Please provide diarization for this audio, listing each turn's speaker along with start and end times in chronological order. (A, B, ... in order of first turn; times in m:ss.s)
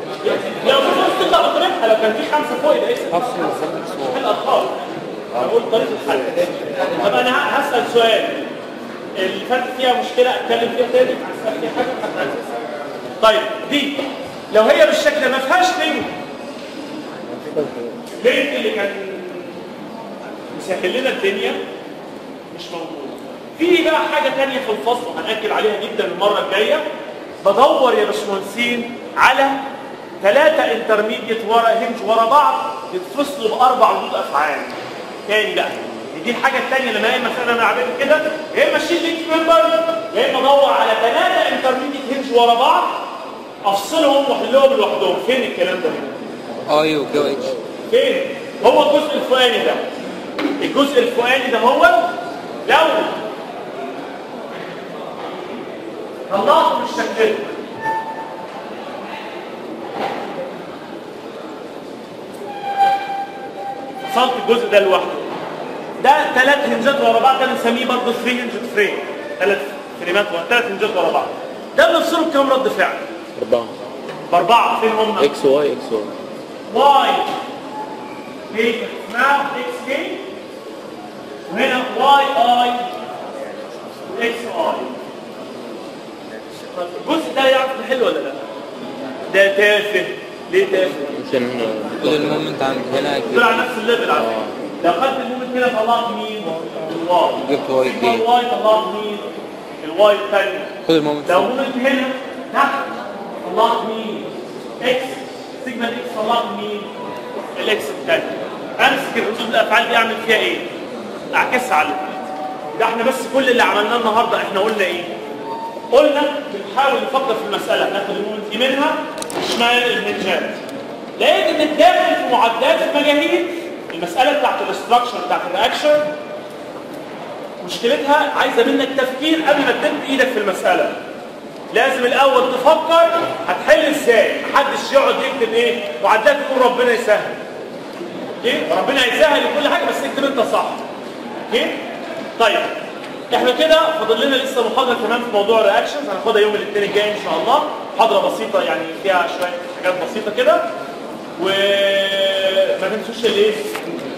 0:00.2-0:04.8 A
0:03.1-0:04.2 B
0:05.3-0:08.5 A
0:09.2-0:12.5 A
0:13.2-0:16.1 A
0:18.2-0:19.6 A
0:20.5-0:21.6 A
0:22.5-0:26.8 A
0:27.4-0:29.6 A
0:30.2-0:34.7 A
0:35.3-0:43.0 A
0:43.6-0:46.2 A
0:46.7-0:47.5 B
0:47.9-0:49.8 A
0:50.6-0:52.1 A
0:52.6-0:53.2 A
0:56.3-0:57.6 A
1:04.1-1:05.3 A
1:06.0-1:13.0 A
1:13.4-1:13.7 C
1:14.3-1:15.3 A
1:15.2-1:16.1 C
1:16.7-1:17.3 A
1:18.5-1:20.2 A
1:21.5-1:22.9 A
1:24.1-1:25.0 A
1:26.7-1:28.4 A
1:29.3-1:31.1 A
1:31.1-1:32.4 C
1:32.0-1:33.6 B
1:33.3-1:39.3 A
1:34.1-1:34.5 C
1:37.4-1:38.2 B
1:39.8-1:42.9 A
1:40.8-1:41.5 B
1:43.4-1:44.3 A
1:44.8-1:46.9 A
1:47.6-1:50.7 A
1:51.3-1:55.1 A
1:55.9-2:00.6 A
2:01.2-2:06.1 A
2:07.6-2:11.0 A
2:11.7-2:17.4 A
2:18.4-2:20.8 A
2:21.5-2:21.8 A
2:22.4-2:22.7 A
2:23.3-2:30.7 A
2:31.4-2:33.7 A